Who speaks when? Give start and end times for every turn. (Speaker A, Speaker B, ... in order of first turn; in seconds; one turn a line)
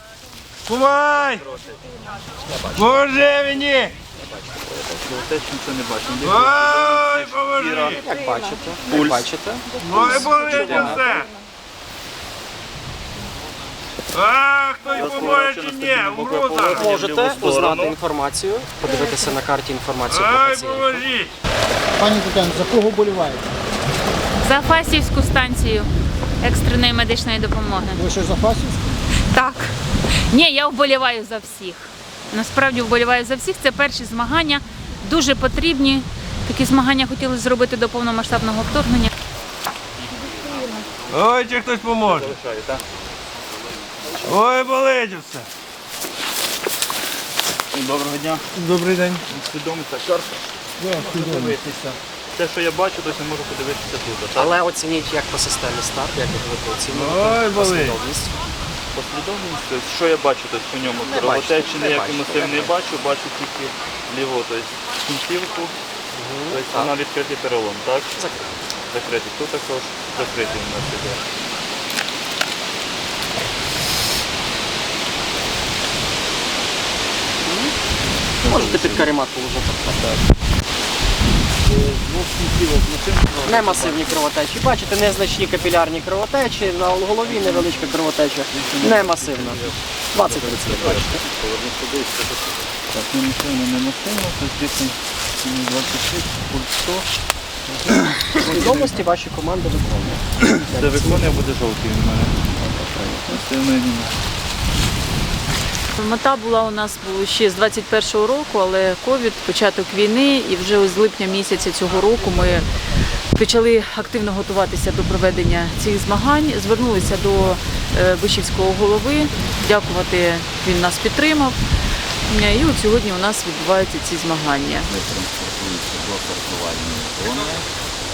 Speaker A: 0.7-1.4
Speaker A: 2.8-4.0
Speaker B: 4.6-8.0
Speaker A: 6.2-8.0
Speaker C: 7.6-11.0
Speaker A: 9.8-11.3
Speaker B: 10.3-10.9
Speaker A: 14.1-16.8
Speaker B: 14.9-18.0
Speaker C: 16.7-21.0
Speaker A: 20.1-21.3
Speaker D: 22.0-23.4
Speaker E: 24.4-25.9
Speaker E: 26.4-28.1
Speaker D: 28.0-28.9
Speaker E: 29.3-29.8
Speaker E: 30.3-39.1
Speaker B: 40.2-41.1
Speaker A: 41.1-42.3
Speaker B: 42.0-42.8
Speaker A: 44.2-45.5
Speaker B: 47.7-48.5
Speaker D: 48.7-49.1
Speaker B: 49.3-54.6
Speaker A: 51.2-51.5
Speaker C: 54.3-58.3
Speaker A: 56.9-58.0
Speaker B: 58.9-65.8
Speaker C: 61.0-62.7
Speaker C: 66.2-66.9
Speaker B: 66.5-68.3
Speaker C: 68.1-68.5
Speaker B: 68.9-71.2
Speaker C: 77.5-77.7
Speaker B: 78.4-79.1
Speaker C: 78.5-80.1
Speaker B: 79.9-80.2
Speaker B: 81.7-84.3
Speaker C: 83.4-91.2
Speaker B: 87.2-88.0
Speaker B: 88.5-97.1
Speaker B: 97.7-99.0
Speaker C: 98.3-101.4
Speaker B: 100.6-104.2
Speaker C: 102.7-103.4
Speaker F: 106.0-112.7
Speaker F: 113.3-121.6
Speaker F: 122.3-124.9
Speaker G: 124.8-127.7